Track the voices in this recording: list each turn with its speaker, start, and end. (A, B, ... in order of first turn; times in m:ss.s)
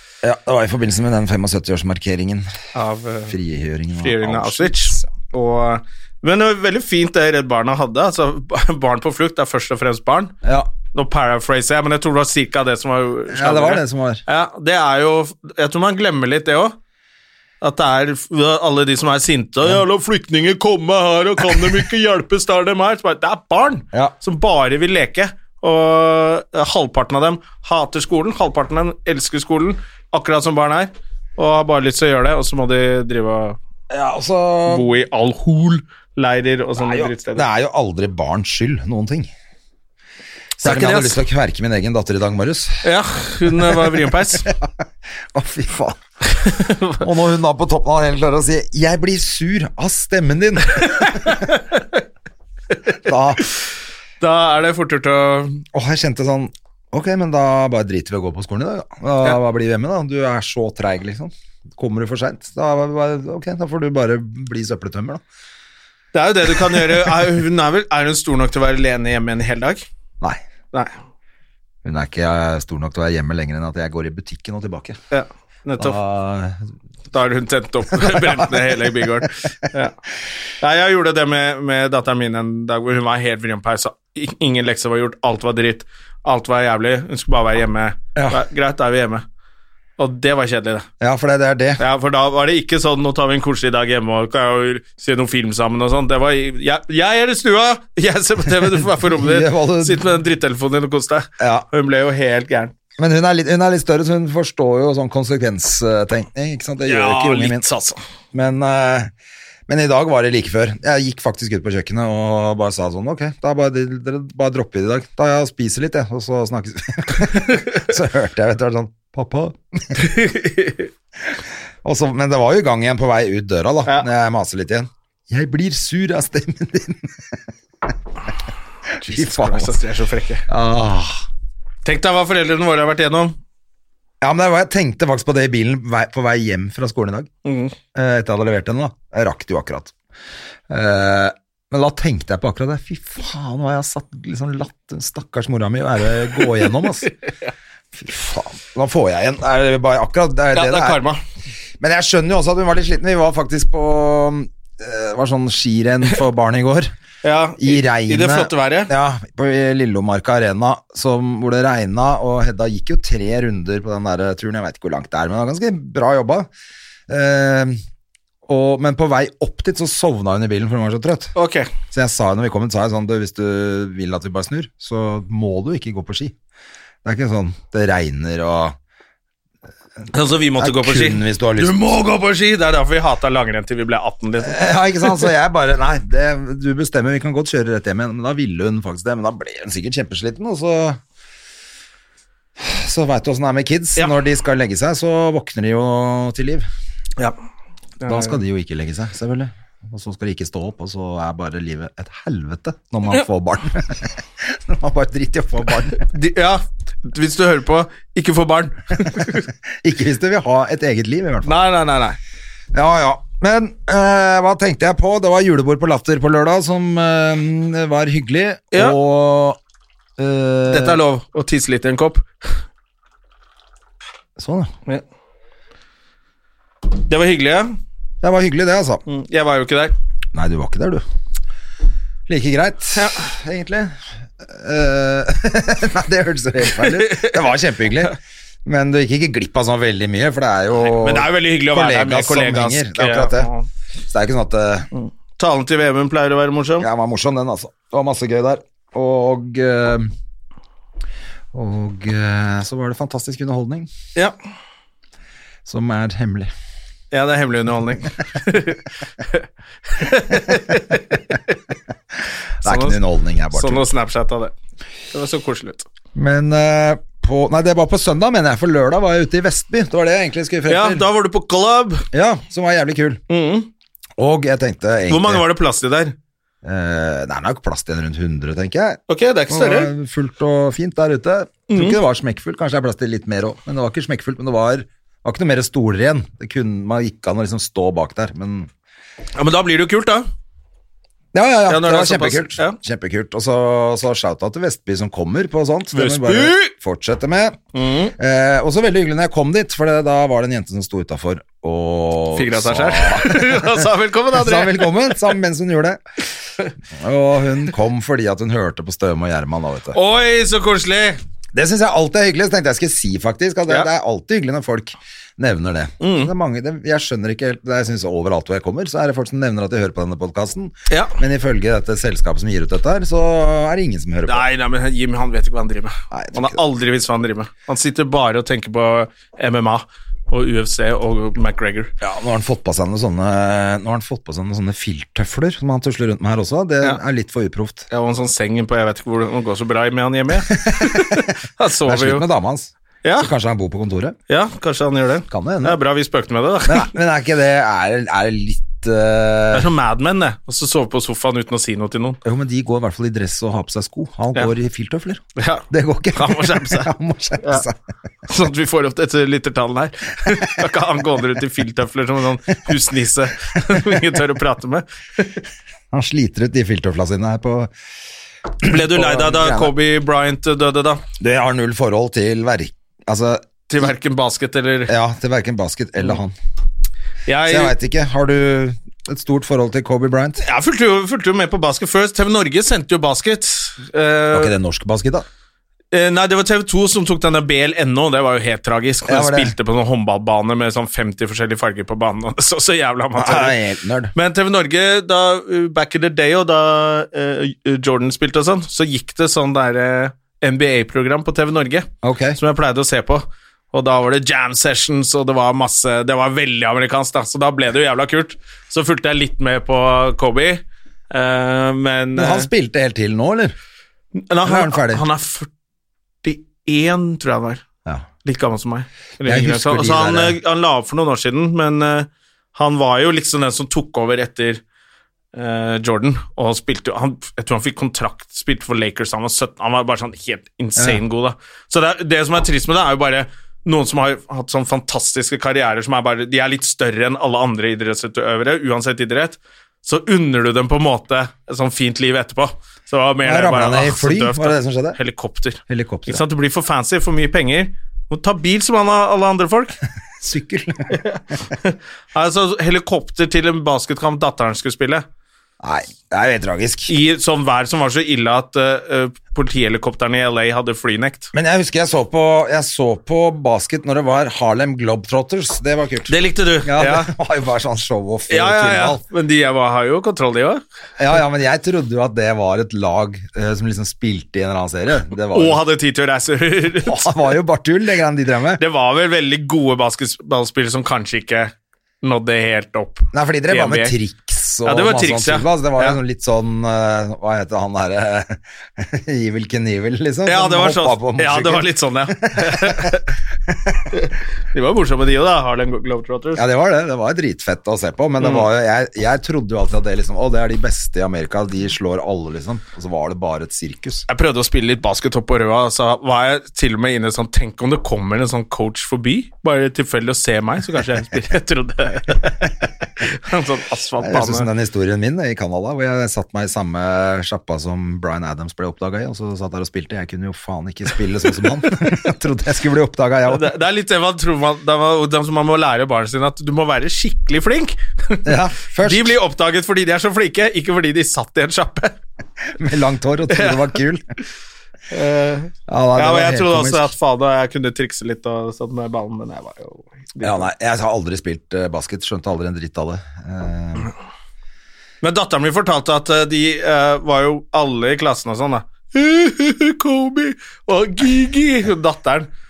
0:00.2-0:02.5 A
0:02.8-0:03.4 B
0:03.3-0:05.1 A
0:04.0-0:10.3 B
0:10.4-0:10.7 A
0:10.9-0:16.8 B
0:13.3-0:14.2 A
0:17.6-0:33.6 B
0:33.9-0:34.9 A
0:34.7-0:37.5 B
0:36.8-0:39.3 A
0:40.6-0:42.9 A
0:40.6-0:41.2 B
0:42.8-0:44.5 B
0:43.5-0:44.7 A
0:45.3-0:46.0 A
0:46.3-0:47.1 B
0:47.0-0:51.5 A
0:50.8-0:51.9 B
0:52.9-0:53.5 A
0:54.2-0:55.6 B
0:55.7-1:05.2 A
1:06.1-1:09.8 B
1:11.8-1:15.0 A
1:15.1-1:16.0 B
1:15.8-1:16.6 A
1:17.1-1:20.0 B
1:17.9-1:19.3 A
1:20.6-1:29.2 B
1:28.2-1:28.4 A
1:30.0-1:30.8 B
1:31.0-1:31.8 A
1:31.8-1:42.7 B
1:39.2-1:40.0 A
1:41.4-1:41.7 A
1:43.0-1:47.6 A
1:46.8-1:48.0 B
1:48.3-1:49.1 A
1:49.7-2:00.1 A
2:00.0-2:00.9 B
2:01.8-2:07.3 A
2:09.0-2:09.8 A
2:09.0-2:10.4 B
2:10.5-2:11.2 A
2:11.8-2:13.4 B
2:14.2-2:17.3 A
2:17.4-2:17.7 B
2:18.0-2:19.9 A
2:20.7-2:27.1 A
2:27.9-2:31.0 A
2:30.5-2:31.2 B
2:31.8-2:36.9 A
2:37.2-2:38.9 B
2:37.6-2:46.5 A
2:47.1-2:47.8 A
2:48.5-2:51.3 A
2:51.4-2:51.7 B
2:51.9-2:56.3 A
2:57.0-2:58.8 A
3:00.1-3:05.3 B
3:00.6-3:01.8 A
3:04.4-3:11.0 A
3:12.6-3:16.7 A
3:18.0-3:18.4 B
3:18.0-3:26.1 A
3:26.0-3:29.5 B
3:29.8-3:31.6 A
3:31.4-3:32.2 B
3:32.7-3:39.6 A
3:40.2-3:41.0 A
3:40.7-3:42.5 B
3:44.4-3:44.7 A
3:46.9-3:47.8 B
3:48.2-3:49.0 A
3:49.1-3:50.0 B
3:50.3-3:51.0 A
3:52.3-4:03.5 A
3:53.0-3:53.2 B
3:56.8-3:58.1 B
4:00.8-4:03.7 B
4:04.0-4:04.9 A
4:05.0-4:06.9 B
4:06.8-4:10.1 A
4:11.5-4:13.9 A
4:15.7-4:16.5 A
4:17.1-4:21.6 B
4:22.6-4:23.9 A
4:22.6-4:23.0 B
4:23.5-4:24.5 B
4:25.1-4:25.9 B
4:26.1-4:31.0 A
4:30.7-4:32.0 B
4:32.1-4:33.2 A
4:33.3-4:33.7 B
4:34.2-4:35.4 A
4:35.1-4:36.1 B
4:36.6-4:48.7 A
4:39.1-4:39.9 B
4:41.7-4:42.0 B
4:49.4-4:50.3 B
4:51.3-4:57.6 A
4:51.7-4:52.8 B
4:55.9-4:56.7 B
4:57.7-4:58.1 B
4:58.2-5:06.0 A
5:02.4-5:05.2 B
5:06.9-5:10.0 A
5:09.9-5:11.2 B
5:11.5-5:24.5 A
5:16.0-5:16.3 B
5:20.9-5:21.2 B
5:24.3-5:31.9 B
5:26.1-5:26.6 A
5:32.0-5:37.9 A
5:37.9-5:42.2 B
5:40.6-5:41.3 A
5:41.9-5:44.2 A
5:43.0-5:43.3 B
5:44.3-5:46.9 B
5:45.3-5:45.8 A
5:46.7-5:49.7 A
5:49.5-5:52.2 B
5:52.2-5:57.8 A
5:55.4-5:56.9 B
5:58.3-6:05.4 B
6:05.9-6:07.7 A
6:08.6-6:09.7 A
6:08.6-6:11.0 B
6:11.2-6:13.6 A
6:13.7-6:14.9 B
6:14.9-6:16.4 A
6:17.3-6:17.7 B
6:17.5-6:20.4 A
6:20.4-6:24.6 B
6:24.3-6:25.2 A
6:25.9-6:33.6 B
6:29.1-6:29.5 A
6:33.2-6:34.1 A
6:34.1-6:52.5 B
6:42.0-6:42.4 A
6:52.1-6:53.6 A
6:54.2-6:55.5 B
6:54.4-6:55.0 A
6:56.2-6:57.6 B
6:58.2-7:04.6 B
6:59.2-7:00.4 A
7:05.3-7:29.8 B
7:23.2-7:25.0 A
7:25.7-7:26.2 A
7:30.2-7:31.0 A
7:30.9-7:35.1 B
7:35.6-7:36.9 A
7:36.9-7:41.3 B
7:41.3-7:49.0 A
7:46.1-7:47.1 B
7:48.3-7:50.6 B
7:51.0-7:55.6 A
7:55.3-7:57.3 B
7:56.8-7:58.6 A
7:58.6-8:04.0 B
8:03.1-8:12.9 A
8:04.6-8:06.0 B
8:10.3-8:13.1 B
8:13.5-8:13.9 A
8:13.9-8:16.4 B
8:16.4-8:24.0 A
8:18.2-8:18.5 B
8:24.1-8:32.5 B
8:33.0-8:34.5 B
8:34.0-8:43.5 A
8:43.3-8:48.3 B
8:48.2-8:49.2 A
8:48.8-8:52.0 B
8:52.6-8:54.0 A
8:53.3-8:53.7 B
8:54.9-9:00.5 B
8:55.7-8:56.9 A
9:00.2-9:03.9 A
9:05.0-9:12.3 B